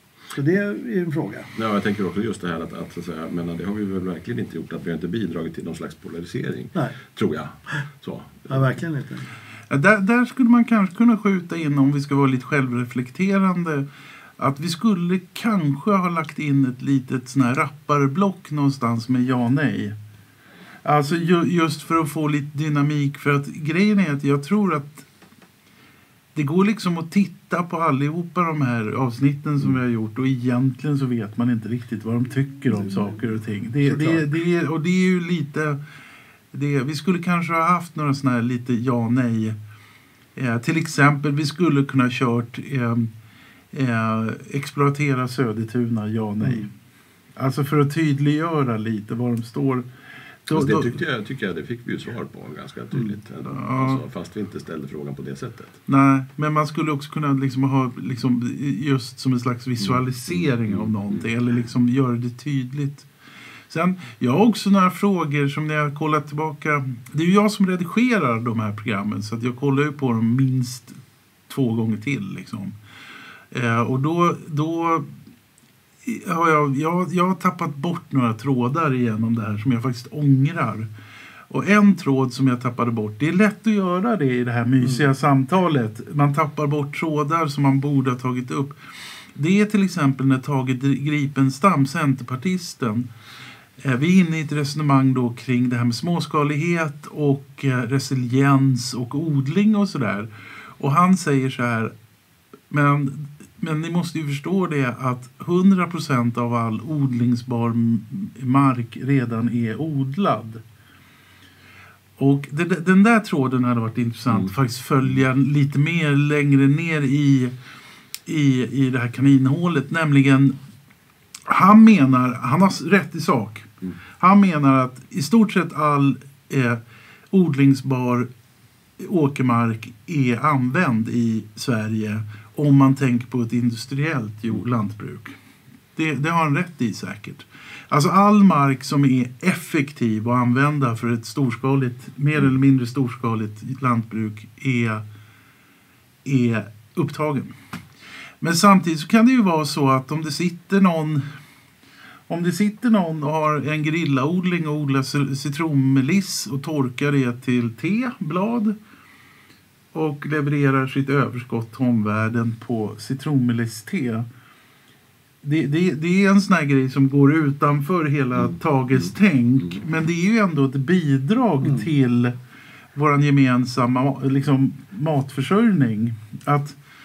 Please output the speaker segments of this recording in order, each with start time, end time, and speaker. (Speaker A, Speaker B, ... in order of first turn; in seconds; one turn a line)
Speaker A: 0.3-1.5
Speaker B: 1.6-8.7
Speaker A: 8.5-9.3
Speaker C: 9.7-13.8
Speaker C: 14.4-19.9
Speaker C: 20.8-25.1
Speaker C: 26.3-35.8
Speaker A: 33.8-34.2
Speaker C: 36.5-39.5
Speaker C: 40.4-43.1
Speaker C: 43.7-46.7
Speaker A: 46.4-46.7
Speaker C: 47.4-49.9
Speaker C: 50.5-50.9
Speaker B: 50.5-55.8
Speaker C: 53.5-54.0
Speaker C: 55.9-63.1
Speaker B: 59.8-61.2
Speaker C: 63.7-72.7
Speaker C: 73.5-75.1
Speaker C: 76.0-80.9
Speaker C: 81.5-93.1
Speaker A: 84.8-85.1
Speaker C: 93.8-101.9
Speaker C: 102.7-110.6
Speaker C: 112.2-117.5
Speaker C: 118.2-120.6
Speaker C: 121.5-128.3
Speaker C: 129.0-135.4
Speaker C: 135.9-145.0
Speaker C: 146.2-147.6
Speaker C: 148.4-151.2
Speaker C: 152.3-158.8
Speaker C: 159.9-164.3
Speaker C: 165.4-172.3
Speaker A: 171.6-171.9
Speaker C: 172.9-176.8